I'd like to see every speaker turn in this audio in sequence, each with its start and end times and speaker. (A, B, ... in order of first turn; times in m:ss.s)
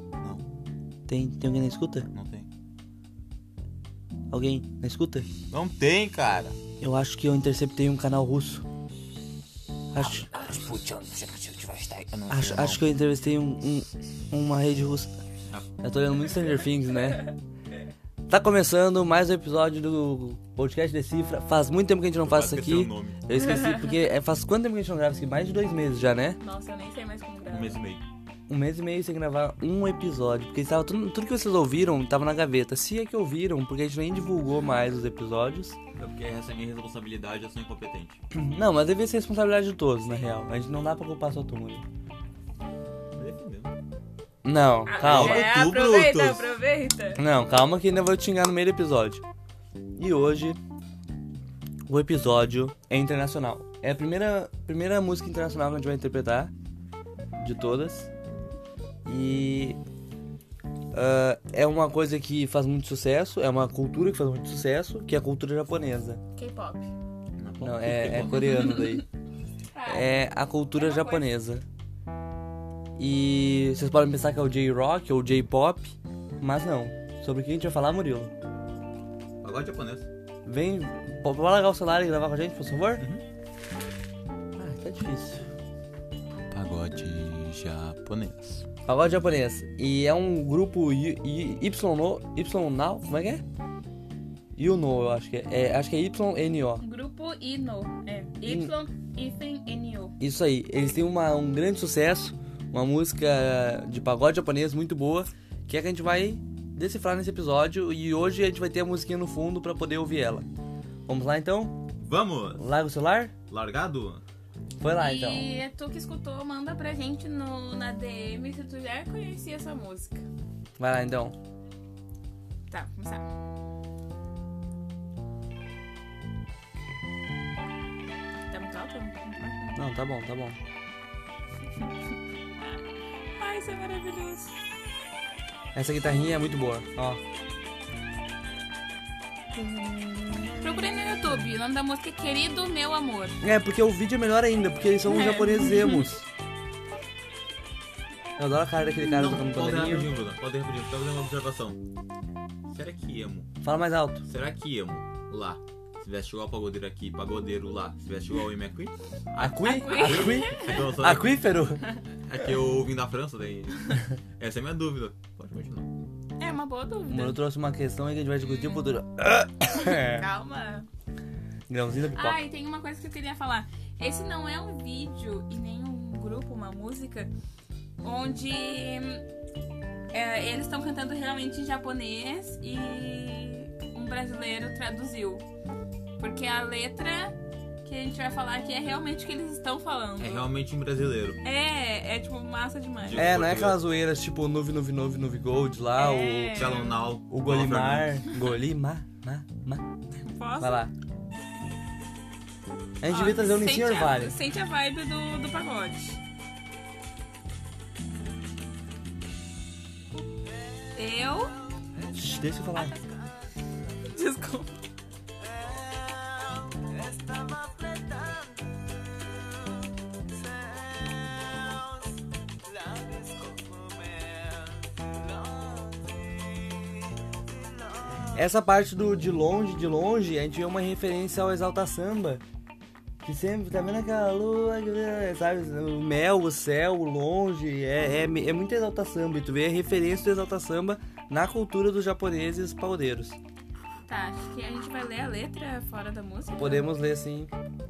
0:01.1-0:02.1 A
0:02.1-0:02.5 B
0:04.3-0:05.3 A
0:05.5-0:06.6 B
0:06.8-0:08.6 A
0:09.9-0:10.5 A
0:10.0-0:12.8 B
0:12.3-0:15.2 A
0:15.8-0:17.3 A
0:18.3-0:26.4 A
0:22.2-0:23.2 B
0:23.3-0:24.0 C
0:26.4-0:27.8 C
0:27.5-0:28.0 B
0:28.5-0:35.8 A
0:35.9-0:38.2 B
0:38.3-0:41.8 A
0:43.2-0:43.7 B
0:44.4-0:45.5 A
0:44.8-0:47.2 C
0:45.0-0:46.5 B
0:47.2-0:49.2 A
0:49.9-0:50.6 A
0:51.9-0:56.5 A
0:57.4-0:58.1 A
0:59.0-0:59.8 A
1:00.9-1:06.2 A
1:06.4-1:06.9 C
1:07.4-1:08.8 B
1:07.6-1:09.0 A
1:08.5-1:09.0 C
1:09.7-1:11.3 C
1:09.9-1:11.6 A
1:13.0-1:18.3 A
1:19.4-1:20.1 B
1:20.4-1:23.0 A
1:24.6-1:25.4 A
1:26.5-1:28.6 B
1:28.8-1:33.4 A
1:34.6-1:36.8 A
1:36.8-1:40.2 C
1:38.4-1:38.7 A
1:40.2-1:50.4 A
1:51.1-1:51.8 A
1:52.0-1:52.7 B
1:52.6-1:53.3 A
1:53.5-1:54.2 B
1:54.8-1:55.5 A
1:54.9-2:00.2 C
2:00.8-2:01.4 A
2:02.7-2:03.3 C
2:08.5-2:09.8 C
2:09.7-2:10.6 A
2:13.4-2:14.5 C
2:15.7-2:17.2 A
2:19.5-2:21.4 A
2:20.6-2:23.4 C
2:23.4-2:26.2 A
2:25.0-2:26.1 C
2:28.4-2:30.1 A
2:29.0-2:31.8 B
2:32.7-2:33.5 B
2:33.6-2:34.2 A
2:34.2-2:41.4 B
2:39.4-2:41.8 A
2:39.4-2:40.9 C
2:42.2-2:45.9 B
2:46.4-2:47.4 C
2:47.1-2:50.2 A
2:48.4-2:48.8 C
2:49.8-2:50.9 C
2:51.7-2:52.4 A
2:52.1-2:57.3 C
2:58.0-2:59.2 C
3:00.1-3:05.4 C
3:06.2-3:10.5 C
3:10.2-3:11.4 B
3:11.4-3:13.2 C
3:13.0-3:13.8 B
3:13.2-3:16.7 A
3:15.9-3:17.0 C
3:16.5-3:18.2 B
3:17.3-3:19.8 A
3:20.2-3:20.8 C
3:20.6-3:20.9 A
3:23.0-3:24.3 A
3:23.0-3:26.2 C
3:30.9-3:31.5 C
3:32.1-3:33.0 A
3:34.1-3:34.8 C
3:48.3-3:52.4 A
3:53.2-4:03.4 A
4:04.1-4:06.9 C
4:06.6-4:07.5 A